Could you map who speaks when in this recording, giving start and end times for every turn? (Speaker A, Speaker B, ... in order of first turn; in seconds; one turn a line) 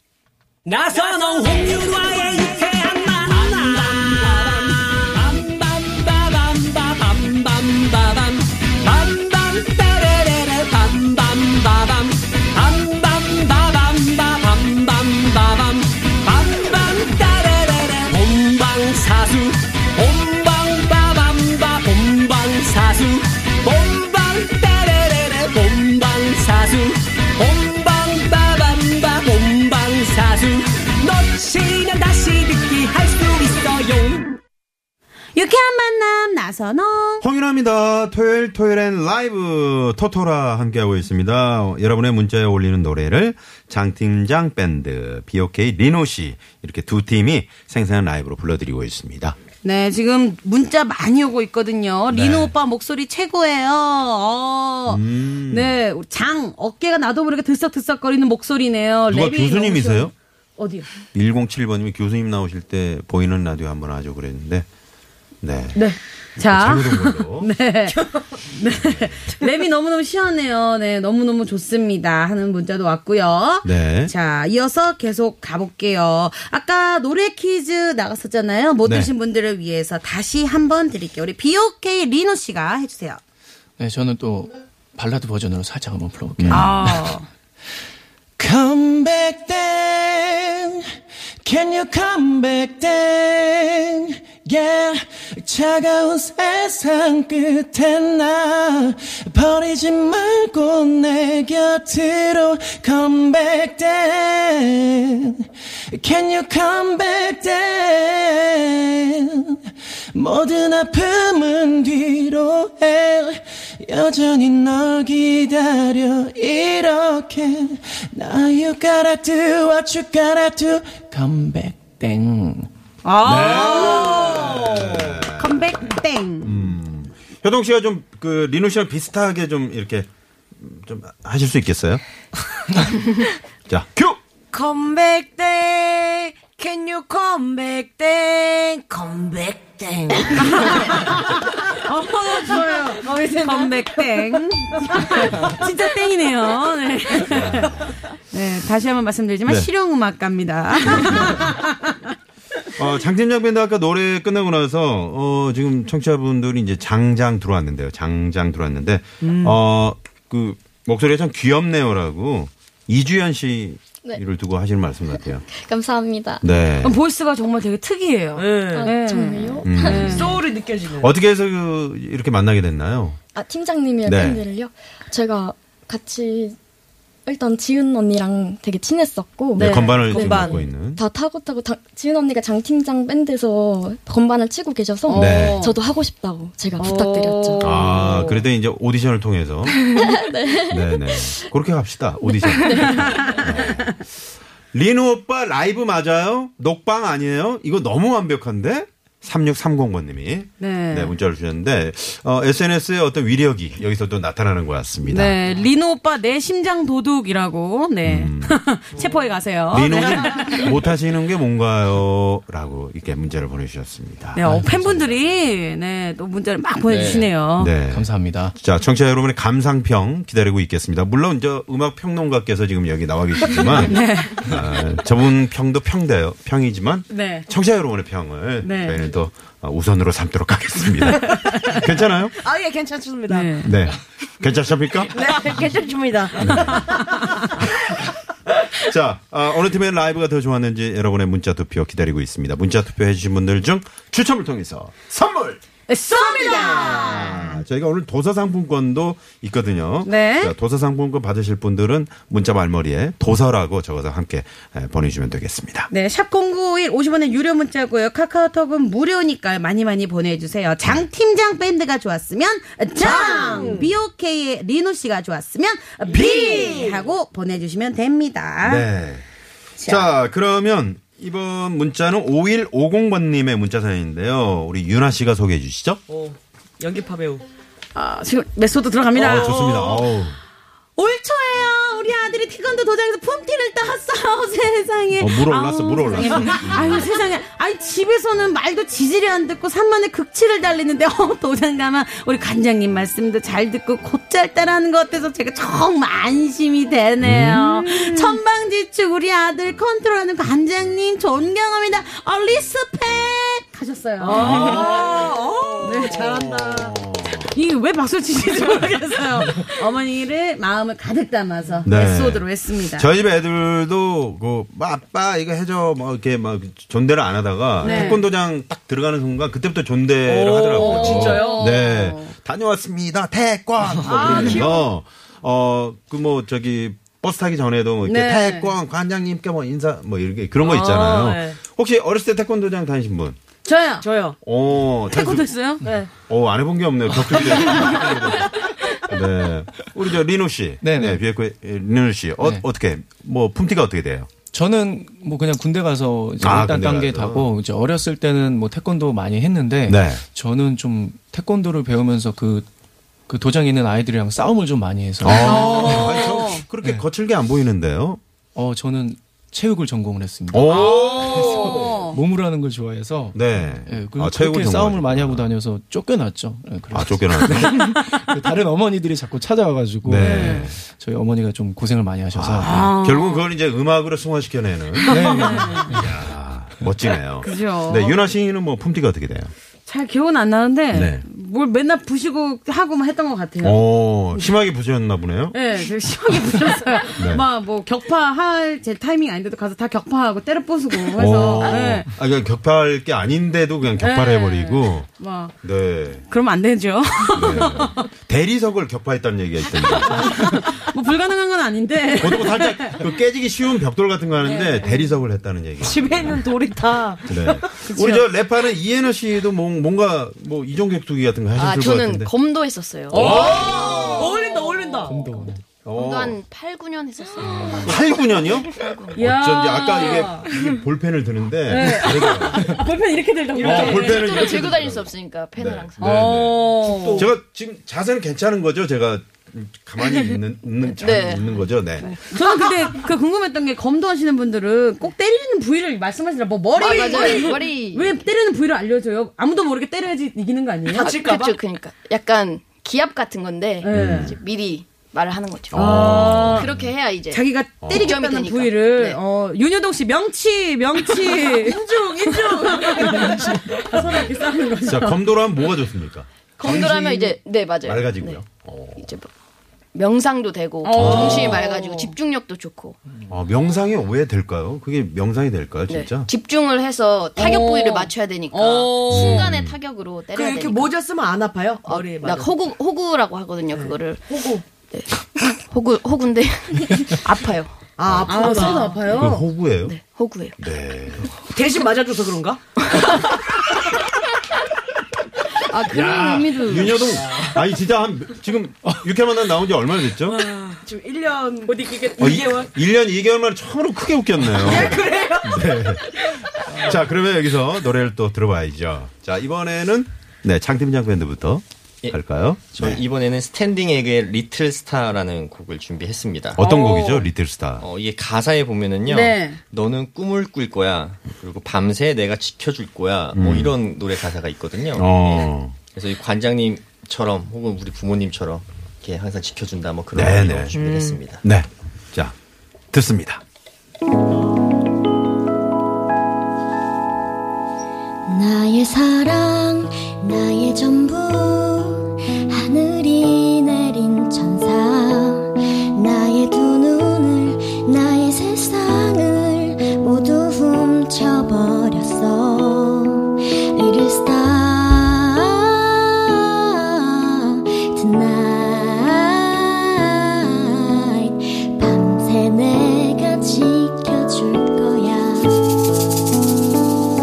Speaker A: 0.7-34.4
Speaker B: 35.3-37.2
Speaker C: 37.2-49.4
Speaker B: 49.6-60.9
Speaker C: 52.1-52.5
Speaker C: 54.9-55.8
Speaker C: 59.1-60.1
Speaker C: 61.1-64.7
Speaker C: 65.4-65.8
Speaker B: 65.7-83.2
Speaker C: 66.5-67.5
Speaker C: 68.8-69.2
Speaker C: 73.6-74.1
Speaker C: 78.8-79.1
Speaker D: 83.8-87.0
Speaker C: 86.4-86.7
Speaker B: 86.5-87.3
Speaker D: 88.4-90.8
Speaker D: 91.4-109.6
Speaker D: 110.1-122.7
Speaker B: 123.0-124.6
Speaker C: 123.2-125.8
Speaker B: 125.3-126.7
Speaker C: 126.4-132.0
Speaker C: 133.7-134.2
Speaker E: 134.5-140.9
Speaker B: 140.3-152.0
Speaker E: 142.4-144.8
Speaker C: 147.2-148.0
Speaker C: 150.9-151.5
Speaker C: 152.8-165.4
Speaker E: 159.2-159.6
Speaker F: 165.5-166.4
Speaker C: 166.4-167.0
Speaker B: 166.8-170.3
Speaker E: 168.3-168.9
Speaker F: 168.7-170.1
Speaker C: 169.6-170.4
Speaker E: 170.0-171.1
Speaker C: 170.9-173.2
Speaker F: 173.3-176.6
Speaker C: 174.0-174.5
Speaker F: 177.3-179.7
Speaker C: 179.6-181.0
Speaker B: 179.6-180.4
Speaker E: 179.6-180.7
Speaker F: 180.8-187.8
Speaker B: 185.1-185.8
Speaker C: 185.1-185.6
Speaker B: 186.8-188.3
Speaker C: 187.6-189.8
Speaker F: 189.7-191.3
Speaker C: 190.6-194.1
Speaker B: 192.8-193.5
Speaker C: 194.7-205.4
Speaker B: 200.6-201.1
Speaker B: 205.1-210.7
Speaker C: 208.0-208.6
Speaker C: 209.7-214.4
Speaker B: 214.3-217.7
Speaker D: 214.4-215.0
Speaker G: 216.9-217.3
Speaker C: 217.6-232.3
Speaker D: 217.9-218.5
Speaker B: 223.7-224.5
Speaker B: 227.1-227.5
Speaker B: 228.6-229.1
Speaker B: 231.4-231.9
Speaker E: 232.4-233.7
Speaker B: 233.3-233.7
Speaker C: 233.6-235.3
Speaker E: 235.1-237.3
Speaker C: 236.3-236.9
Speaker C: 238.7-245.6
Speaker B: 245.9-247.6
Speaker C: 246.1-255.9
Speaker B: 250.0-250.5
Speaker B: 255.9-268.9
Speaker E: 263.0-263.9
Speaker E: 266.0-267.1
Speaker C: 268.6-269.2
Speaker B: 269.8-270.1
Speaker C: 269.8-276.0
Speaker E: 276.1-277.4
Speaker B: 277.9-279.6
Speaker E: 279.1-280.0
Speaker C: 279.1-280.4
Speaker B: 281.0-305.1
Speaker C: 285.2-287.0
Speaker C: 297.2-297.6
Speaker E: 297.7-298.3
Speaker E: 304.2-306.5
Speaker C: 304.3-305.2
Speaker B: 305.8-313.1
Speaker C: 306.0-307.5
Speaker C: 311.8-333.4
Speaker E: 317.8-318.1
Speaker B: 317.8-318.2
Speaker E: 320.2-321.7
Speaker B: 320.7-322.3
Speaker E: 324.0-324.8
Speaker B: 328.0-328.7
Speaker E: 330.6-331.6
Speaker B: 333.6-334.1
Speaker E: 334.0-334.4
Speaker C: 334.4-335.6
Speaker B: 335.1-335.8
Speaker E: 335.8-336.1
Speaker C: 336.3-344.3
Speaker D: 340.8-341.2
Speaker D: 344.5-352.7
Speaker C: 346.4-347.5
Speaker C: 349.9-350.2
Speaker D: 353.3-356.2
Speaker C: 355.2-358.2
Speaker B: 355.2-356.6
Speaker D: 358.5-372.9
Speaker C: 360.5-361.8
Speaker B: 360.7-362.2
Speaker C: 363.3-365.5
Speaker C: 366.9-367.8
Speaker C: 370.0-370.8
Speaker B: 370.2-370.6
Speaker C: 372.3-379.5
Speaker B: 372.6-373.4
Speaker B: 375.1-375.9
Speaker D: 375.1-376.1
Speaker B: 377.4-378.3
Speaker B: 379.9-383.8
Speaker C: 380.9-381.2
Speaker C: 383.6-385.6
Speaker B: 385.5-392.1
Speaker C: 387.2-387.4
Speaker C: 391.1-395.1
Speaker B: 394.0-395.5
Speaker C: 395.6-396.2
Speaker B: 396.2-398.1
Speaker C: 397.3-400.6
Speaker B: 400.1-403.0
Speaker C: 402.2-406.4
Speaker B: 404.4-405.0
Speaker E: 405.8-408.2
Speaker C: 407.3-412.3
Speaker H: 411.6-413.2
Speaker I: 413.0-413.3
Speaker C: 413.1-414.0
Speaker E: 413.1-415.4
Speaker H: 413.8-414.4
Speaker D: 415.1-415.6
Speaker C: 415.8-416.4
Speaker H: 415.9-419.1
Speaker C: 417.8-422.8
Speaker B: 419.2-420.5
Speaker B: 421.7-424.4
Speaker C: 423.6-432.1
Speaker H: 423.9-426.0
Speaker B: 426.0-427.3
Speaker H: 431.0-432.2
Speaker B: 432.3-441.1
Speaker E: 432.3-432.9
Speaker H: 436.8-438.2
Speaker E: 436.8-437.5
Speaker E: 440.9-441.6
Speaker H: 441.0-445.7
Speaker B: 443.8-444.4
Speaker C: 443.9-444.4
Speaker C: 445.7-446.9
Speaker B: 445.7-446.7
Speaker E: 446.0-446.4
Speaker H: 446.5-449.2
Speaker B: 447.3-455.2
Speaker C: 447.8-448.1
Speaker E: 451.3-453.7
Speaker C: 454.0-454.3
Speaker C: 454.8-457.3
Speaker H: 456.6-458.4
Speaker C: 457.8-459.1
Speaker H: 458.9-459.3
Speaker H: 459.9-462.9
Speaker B: 460.8-462.1
Speaker C: 460.9-461.5
Speaker C: 463.3-466.3
Speaker H: 465.9-470.9
Speaker B: 467.4-469.5
Speaker C: 469.1-469.7
Speaker E: 470.3-472.4
Speaker H: 471.8-474.2
Speaker E: 474.3-474.6
Speaker H: 474.9-477.7
Speaker E: 478.0-479.1
Speaker C: 478.1-478.5
Speaker B: 478.2-479.4
Speaker C: 479.0-479.9
Speaker H: 479.8-480.5
Speaker C: 480.6-481.3
Speaker E: 481.5-482.6
Speaker B: 485.6-487.2
Speaker C: 485.8-490.4
Speaker E: 490.5-492.7
Speaker B: 491.7-492.4
Speaker C: 492.2-503.0
Speaker E: 494.4-495.6
Speaker G: 502.7-506.6
Speaker C: 506.6-507.9
Speaker B: 506.6-507.3
Speaker G: 507.8-521.4
Speaker B: 509.0-509.6
Speaker C: 513.3-513.8
Speaker C: 514.9-515.8
Speaker C: 520.1-520.8
Speaker C: 521.4-522.3
Speaker C: 522.9-523.4
Speaker I: 528.3-555.6